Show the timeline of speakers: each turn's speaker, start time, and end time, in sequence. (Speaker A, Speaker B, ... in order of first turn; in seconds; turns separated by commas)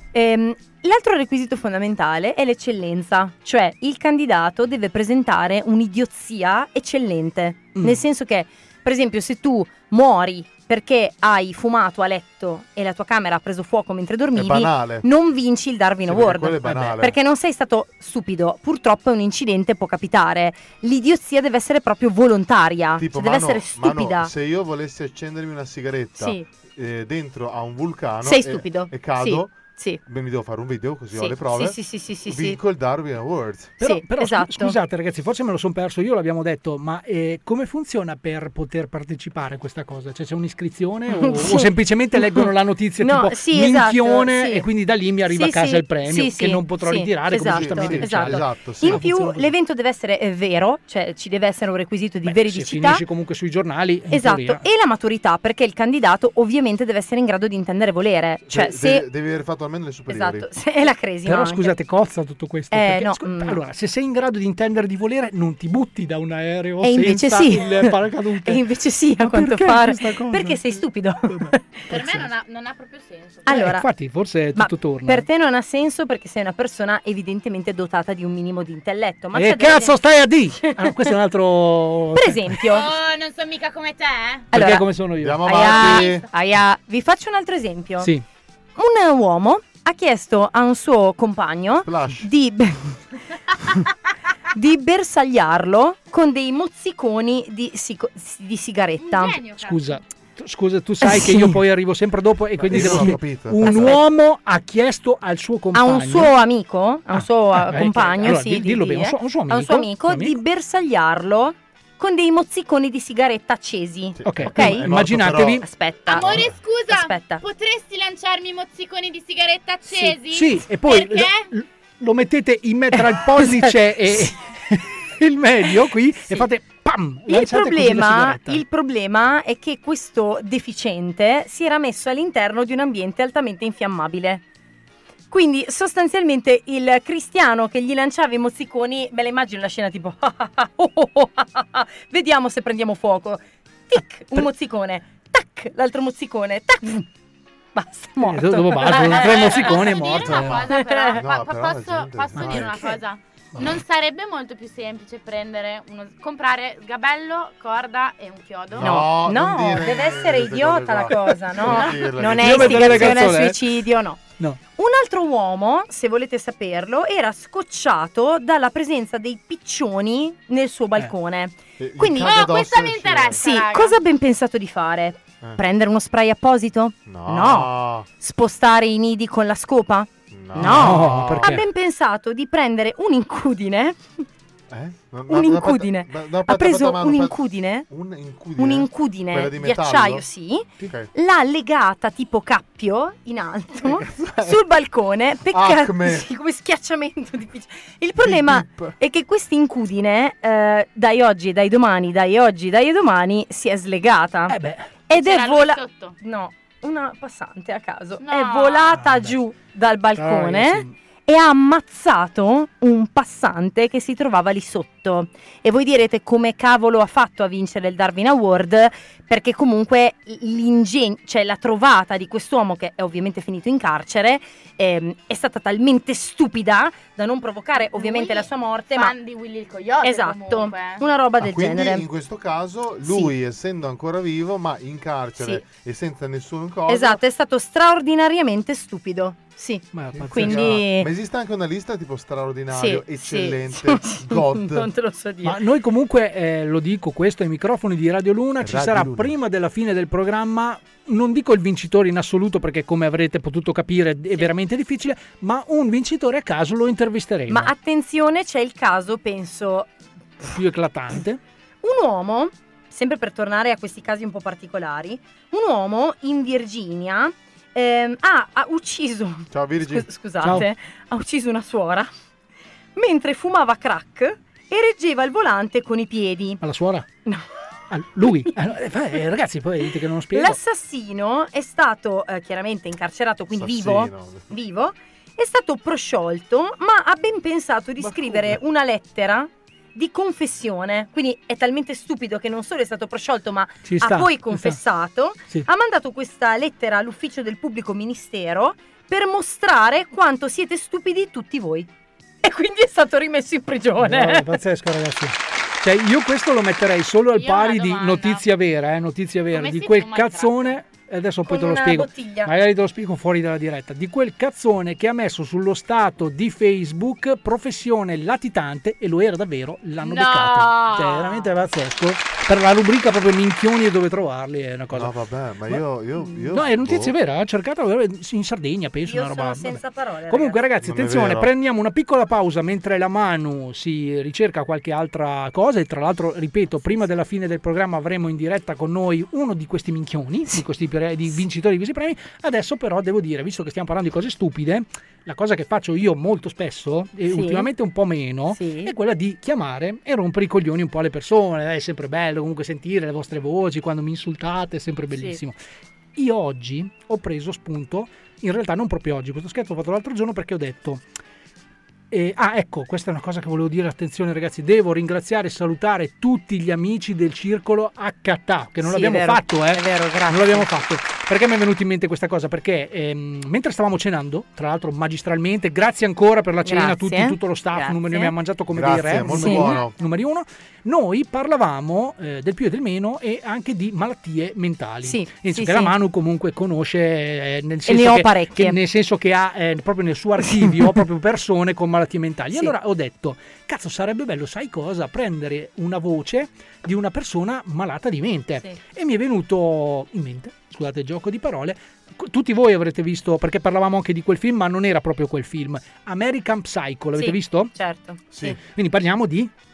Speaker A: 0.1-24.3, Speaker B: 7.8-8.0, Speaker C: 14.3-15.1, Speaker C: 16.0-17.2, Speaker C: 23.0-33.7, Speaker A: 26.2-26.4, Speaker A: 28.2-30.0, Speaker A: 31.1-32.6, Speaker A: 33.8-34.8, Speaker B: 33.8-49.5, Speaker A: 41.1-42.5, Speaker A: 43.0-44.7, Speaker A: 45.3-53.0, Speaker C: 47.3-49.1, Speaker B: 52.2-54.6, Speaker A: 54.1-59.0, Speaker C: 58.5-60.5, Speaker A: 60.1-61.7, Speaker B: 61.3-68.6, Speaker A: 62.7-63.6, Speaker A: 66.8-67.9, Speaker A: 68.5-71.7, Speaker B: 69.2-72.3, Speaker D: 71.9-73.5, Speaker A: 73.5-73.9, Speaker B: 73.5-75.3, Speaker A: 74.6-80.0, Speaker B: 79.3-82.6, Speaker A: 82.2-82.9, Speaker D: 82.7-84.5, Speaker A: 84.5-84.8, Speaker B: 84.5-85.8, Speaker C: 85.2-86.3, Speaker A: 85.5-88.1, Speaker D: 85.6-86.2, Speaker A: 88.8-93.0, Speaker C: 91.9-92.3, Speaker A: 94.5-99.4, Speaker D: 99.0-100.0, Speaker B: 99.6-106.3, Speaker A: 101.0-101.6, Speaker C: 102.6-103.9, Speaker A: 102.8-104.0, Speaker A: 105.8-114.9, Speaker B: 107.1-110.4, Speaker C: 114.2-115.6, Speaker B: 114.2-115.7, Speaker A: 115.6-117.4, Speaker D: 116.1-121.5, Speaker C: 116.2-116.6, Speaker B: 120.3-128.6, Speaker A: 127.3-134.4, Speaker A: 135.3-147.0, Speaker A: 147.8-149.8, Speaker B: 148.2-150.6, Speaker D: 148.9-159.0, Speaker C: 150.2-152.8, Speaker A: 150.7-151.2, Speaker B: 152.3-152.9, Speaker C: 158.7-163.4, Speaker A: 158.8-164.2, Speaker B: 162.4-163.6, Speaker A: 164.8-172.6, Speaker C: 171.8-173.4, Speaker D: 172.2-174.0, Speaker A: 173.4-184.2, Speaker C: 177.1-178.1, Speaker C: 180.3-181.6, Speaker B: 180.6-181.7, Speaker C: 184.7-187.4, Speaker A: 185.3-187.9, Speaker C: 187.9-190.2, Speaker A: 188.6-204.6, Speaker C: 190.8-191.1, Speaker C: 193.8-194.6, Speaker C: 195.5-196.3, Speaker C: 198.2-199.0, Speaker B: 204.5-204.9, Speaker A: 205.1-229.1, Speaker D: 205.1-206.2, Speaker D: 208.2-209.0, Speaker B: 209.0-209.4, Speaker B: 210.2-210.9, Speaker D: 227.8-231.0, Speaker A: 230.0-232.1, Speaker C: 231.4-237.2, Speaker A: 233.1-233.3, Speaker A: 236.9-241.1, Speaker B: 239.9-240.8, Speaker C: 240.2-244.9, Speaker A: 242.7-245.6, Speaker B: 245.4-257.7, Speaker C: 248.6-249.3, Speaker A: 257.5-259.9, Speaker B: 260.4-261.4, Speaker A: 261.8-272.1, Speaker C: 269.5-270.1, Speaker B: 270.4-270.7, Speaker A: 273.0-276.6, Speaker B: 276.6-277.1, Speaker B: 277.9-280.6, Speaker A: 278.2-278.5, Speaker A: 280.3-301.9, Speaker C: 283.5-284.5, Speaker B: 288.0-288.6, Speaker B: 293.9-294.8, Speaker A: 302.4-304.6, Speaker B: 304.0-325.1, Speaker D: 307.4-308.4, Speaker D: 309.5-310.8, Speaker A: 311.5-312.5, Speaker D: 320.0-321.4, Speaker C: 324.9-327.1, Speaker B: 326.5-355.6, Speaker A: 329.1-330.6, Speaker C: 330.8-331.5, Speaker A: 347.3-347.7, Speaker A: 348.6-348.9, Speaker B: 356.2-361.0, Speaker B: 362.1-407.7, Speaker A: 368.8-370.7, Speaker A: 376.7-378.3, Speaker C: 378.7-379.9, Speaker A: 379.3-379.8, Speaker A: 385.0-385.9, Speaker A: 387.9-388.8, Speaker A: 407.2-408.6, Speaker C: 408.3-408.6, Speaker B: 408.8-409.5